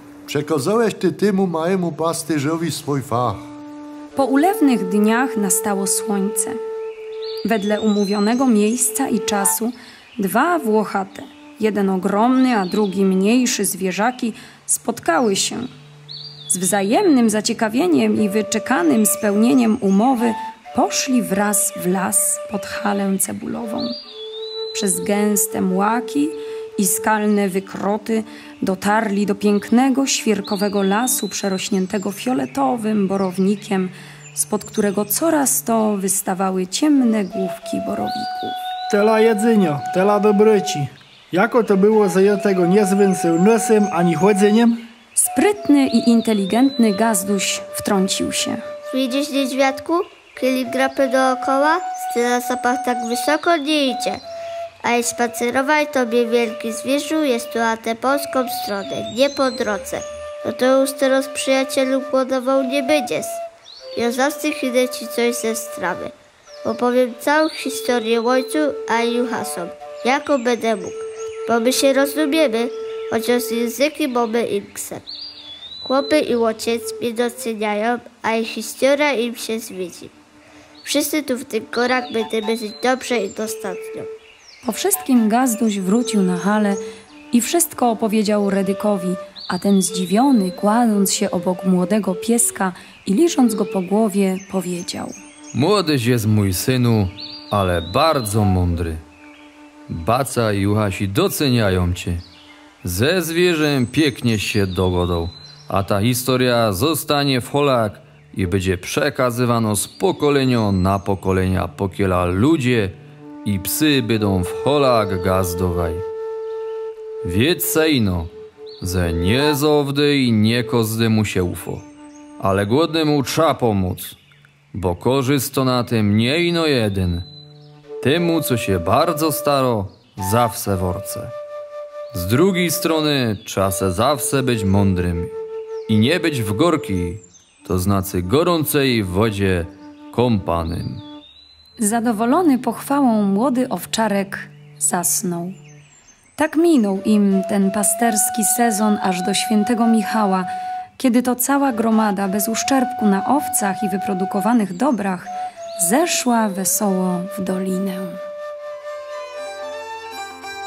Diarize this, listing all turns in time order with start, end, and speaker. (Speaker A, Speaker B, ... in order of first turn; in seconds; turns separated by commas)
Speaker A: 0.3-3.4, Speaker B: 4.2-6.6, Speaker B: 7.4-15.7, Speaker B: 16.5-24.0, Speaker B: 24.7-38.6, Speaker C: 38.9-44.8, Speaker B: 45.2-48.6, Speaker D: 48.9-54.2, Speaker D: 54.8-63.4, Speaker D: 64.0-66.1, Speaker D: 66.6-75.1, Speaker D: 75.8-80.1, Speaker D: 80.8-84.1, Speaker B: 84.6-95.2, Speaker E: 95.5-99.0, Speaker E: 99.9-102.2, Speaker E: 102.8-116.0, Speaker E: 117.2-121.9, Speaker E: 122.4-124.2, Speaker E: 124.7-127.3, Speaker E: 128.0-131.3, Speaker E: 132.1-135.3, Speaker E: 135.9-141.0, Speaker B: 141.8-145.6, Speaker B: 146.4-158.2